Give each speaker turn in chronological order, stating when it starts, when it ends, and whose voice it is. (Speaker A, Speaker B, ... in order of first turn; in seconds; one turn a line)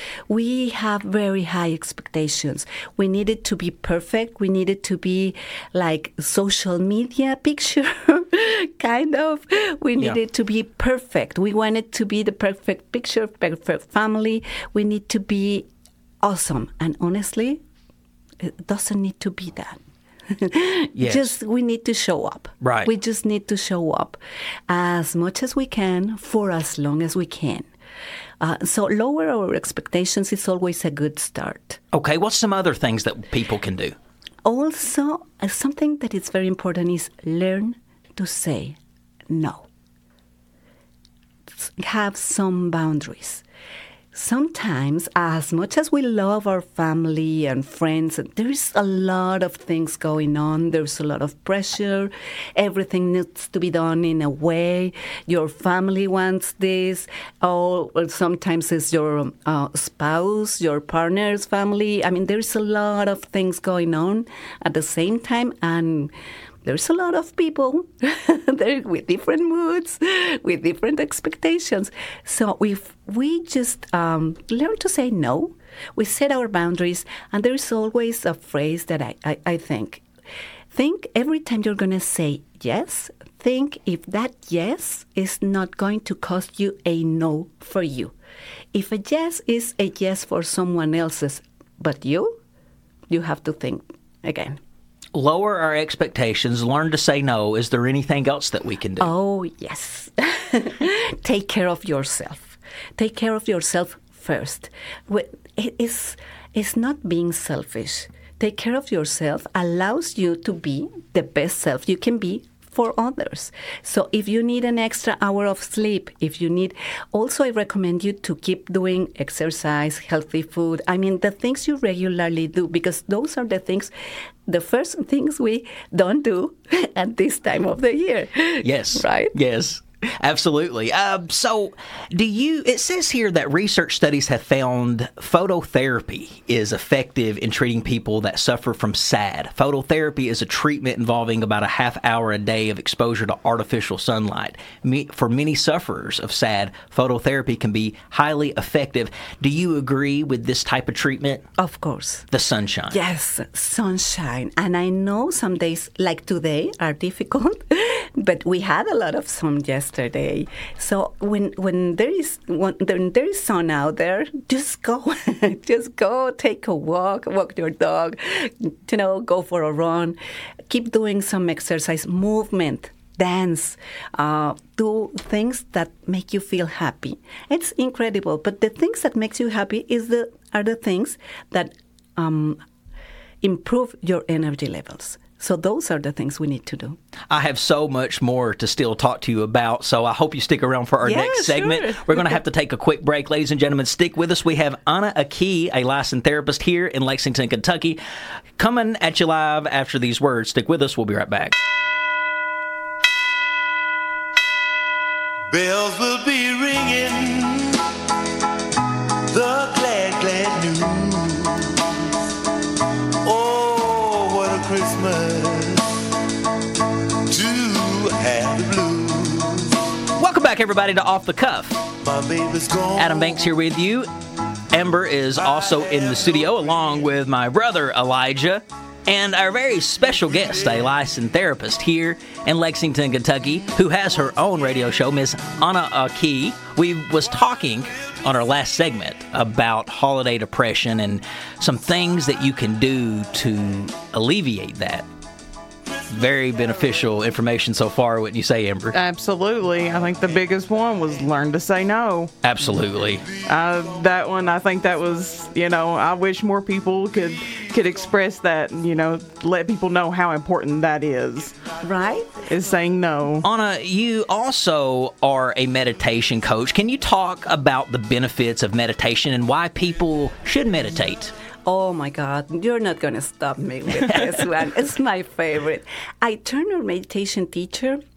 Speaker A: 0.3-15.7
Speaker A: 16.2-17.6
Speaker A: 18.4-19.8
Speaker A: 20.3-27.7
Speaker B: 21.0-21.4
Speaker B: 22.6-22.9
Speaker A: 28.4-31.8
Speaker B: 31.9-34.0
Speaker A: 34.5-38.8
Speaker A: 39.3-39.7
Speaker A: 41.6-43.4
Speaker A: 44.1-66.1
Speaker A: 66.6-80.1
Speaker A: 80.7-88.2
Speaker A: 88.7-92.4
Speaker A: 93.1-94.6
Speaker B: 95.2-99.1
Speaker A: 99.0-123.9
Speaker A: 124.5-129.3
Speaker B: 128.6-151.5
Speaker A: 151.6-152.3
Speaker B: 152.3-153.0
Speaker A: 152.9-170.2
Speaker A: 170.7-182.6
Speaker A: 183.4-187.0
Speaker B: 187.3-198.0
Speaker A: 191.0-192.4
Speaker B: 198.6-201.5
Speaker C: 205.5-207.6
Speaker C: 209.4-211.4
Speaker C: 213.3-215.6
Speaker C: 217.3-219.3
Speaker B: 220.2-221.9
Speaker C: 222.1-222.9
Speaker B: 222.9-224.1
Speaker B: 224.7-245.1
Speaker B: 246.1-249.0
Speaker D: 248.9-252.3
Speaker B: 252.4-253.3
Speaker D: 253.3-261.6
Speaker A: 261.8-262.4
Speaker D: 262.4-263.5
Speaker B: 263.4-271.3
Speaker A: 271.7-278.0